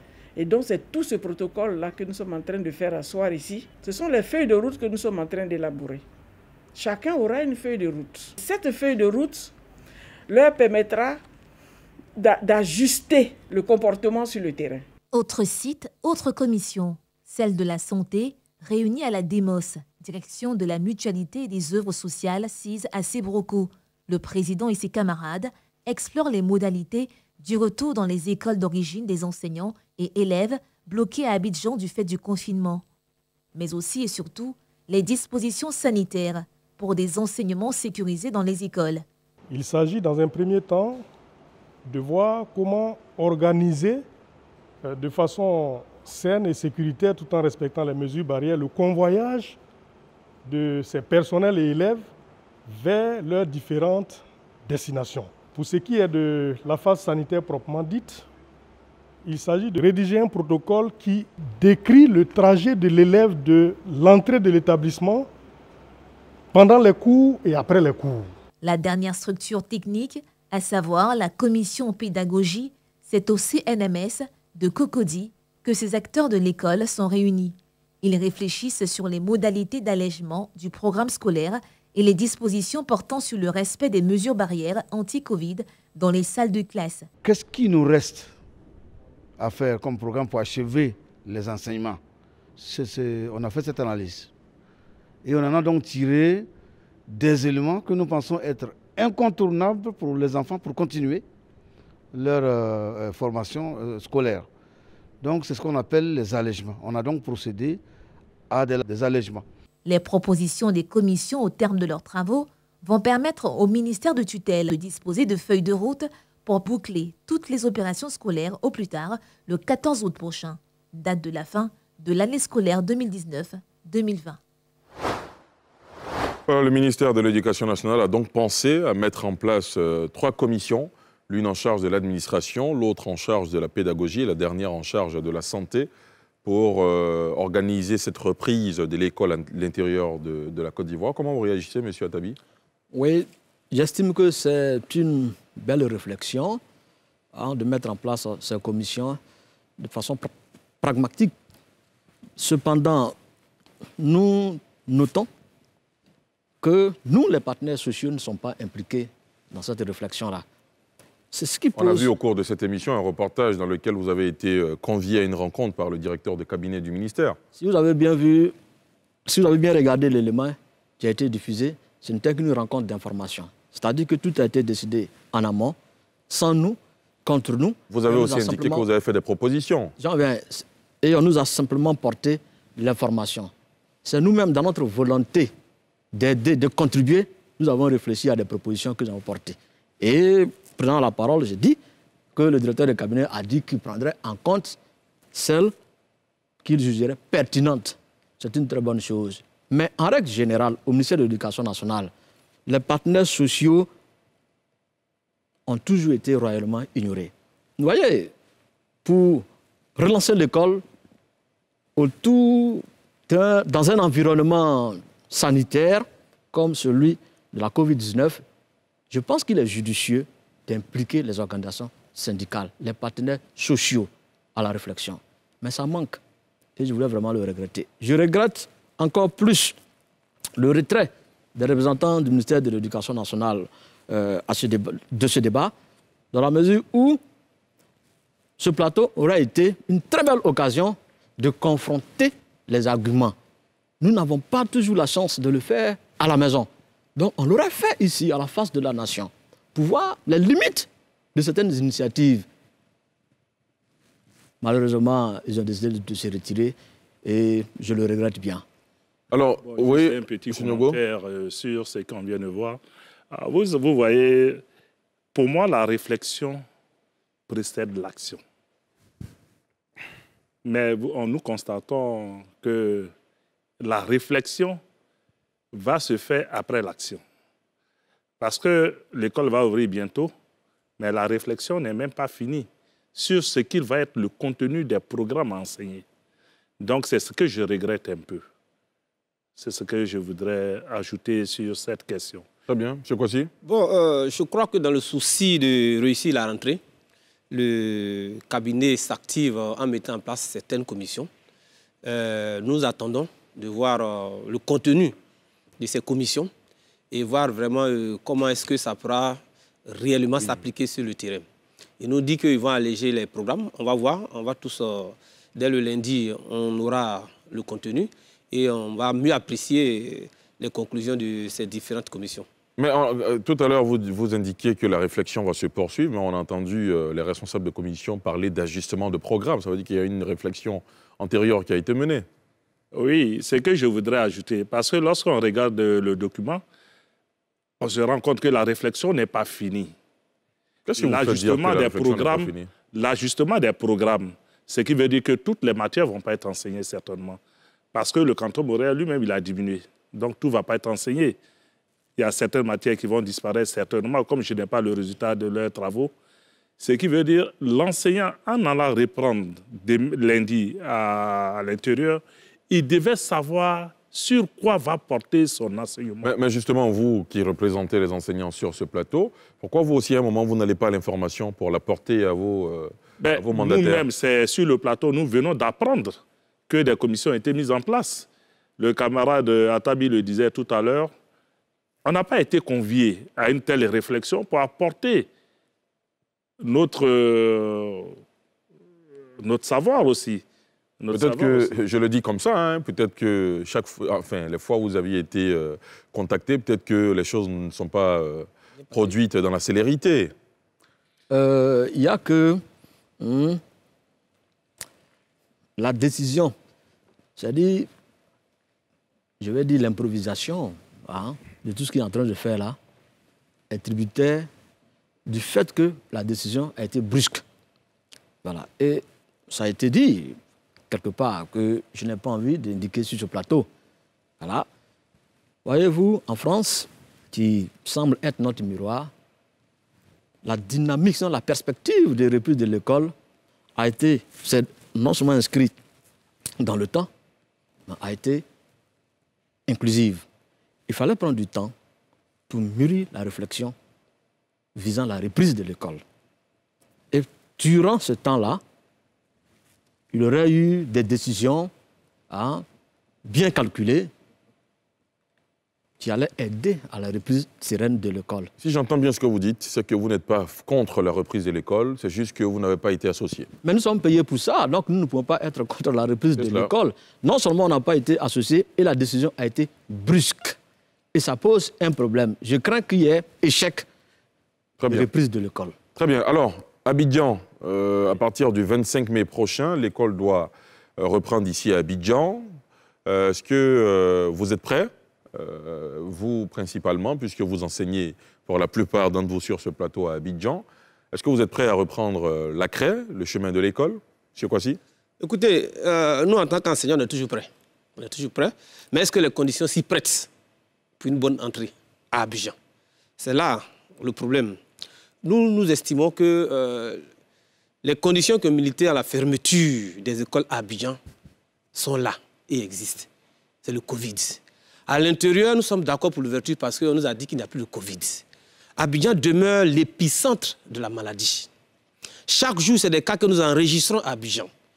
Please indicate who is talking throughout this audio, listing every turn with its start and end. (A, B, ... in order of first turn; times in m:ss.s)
0:00.4-0:06.1 A
0:06.7-0:09.6 A
0:10.3-0:11.2 A
0:12.2-0:14.9 A
0:15.1-0:32.8 B
0:33.6-0:39.0 B
0:39.5-0:41.0 C
0:41.8-0:44.0 C
0:44.8-0:49.6 C
0:50.4-0:52.1 C
0:52.7-0:58.2 C
0:59.2-1:05.3 C
1:06.5-1:08.3 C
1:08.6-1:27.1 B
1:27.2-1:28.3 D
1:29.4-1:32.0 D
1:32.6-1:34.3 D
1:35.2-1:36.5 D
1:37.1-1:41.2 D
1:42.1-1:44.5 D
1:45.2-1:47.8 D
1:48.5-1:49.4 D
1:49.8-2:04.4 B
2:06.5-2:15.9 E
2:16.4-2:22.4 E
2:22.9-2:26.6 F
2:27.3-2:29.2 F
2:29.8-2:31.3 F
2:32.4-2:33.2 F
2:34.0-2:35.3 F
2:36.6-2:40.4 F
2:41.3-2:42.1 F
2:41.8-2:47.4 E
2:47.6-2:48.6 F
2:49.3-2:55.8 F
2:56.3-2:58.9 F
2:57.9-2:59.9 E
3:00.0-3:03.5 F
3:04.0-3:05.5 F
3:06.1-3:11.8 F
3:12.4-3:14.8 F
3:15.3-3:15.8 F
3:16.6-3:22.1 F
3:22.7-3:23.9 F
3:25.7-3:28.3 F
3:29.0-3:30.8 F
3:32.0-3:38.4 F
3:39.1-3:46.2 F
3:46.8-3:49.8 F
3:50.6-3:55.7 F
3:56.3-3:57.2 F
3:58.6-4:03.4 F
4:04.0-4:12.5 F
4:14.6-4:18.6 F
4:19.3-4:21.0 E
4:19.6-4:22.8 G
4:23.3-4:24.6 G
4:25.3-4:26.6 G
4:27.5-4:28.4 G
4:30.6-4:33.1 G
4:33.8-4:34.8 G
4:35.7-4:37.2 G
4:38.4-4:40.3 G
4:41.0-4:46.0 G
4:46.8-4:48.4 G
4:49.6-4:52.5 G
4:52.7-4:53.5 E
4:53.6-4:56.8 H
4:57.5-5:01.3 H
5:02.0-5:05.2 H
5:05.8-5:06.5 H
5:07.1-5:11.4 H
5:12.0-5:22.5 H
5:22.8-5:32.3 E
5:32.9-5:36.6 G
5:37.8-5:39.9 G
5:40.9-5:42.7 E
5:41.0-5:47.4 G
5:47.9-5:51.4 G
5:52.2-5:56.1 G
5:56.8-6:06.3 G
6:06.2-6:14.0 E
6:13.2-6:18.3 G
6:18.8-6:21.1 G
6:22.0-6:25.3 G
6:26.6-6:28.2 G
6:29.4-6:30.4 G
6:31.0-6:31.7 G
6:31.1-6:40.3 E
6:41.3-6:42.6 F
6:43.2-6:43.6 F
6:45.8-6:46.6 F
6:47.4-6:47.9 F
6:49.4-6:52.8 F
6:53.7-6:54.5 F
6:55.3-6:57.4 F
6:58.4-7:00.4 F
7:00.9-7:03.7 F
7:04.4-7:04.7 F
7:05.6-7:09.1 F
7:10.4-7:13.1 F
7:13.8-7:15.8 F
7:16.6-7:17.1 F
7:17.9-7:18.4 F
7:19.7-7:20.2 F
7:20.9-7:21.7 F
7:22.5-7:23.8 F
7:24.8-7:26.0 F
7:27.1-7:28.6 F
7:30.1-7:31.7 F
7:32.3-7:32.6 F
7:33.2-7:34.1 F
7:36.0-7:38.5 F
7:38.6-7:43.5 E
7:43.6-7:50.6 F
7:46.4-7:46.7 E
7:51.1-7:53.9 F
7:54.8-7:55.1 E
7:54.9-7:55.8 F
7:56.0-8:02.5 E
8:03.1-8:14.8 E
8:15.2-8:20.3 H
8:21.0-8:22.6 H
8:23.2-8:24.6 H
8:25.2-8:27.0 H
8:27.8-8:31.0 H
8:31.7-8:33.1 H
8:33.6-8:38.2 H
8:38.8-8:41.5 H
8:42.3-8:44.5 H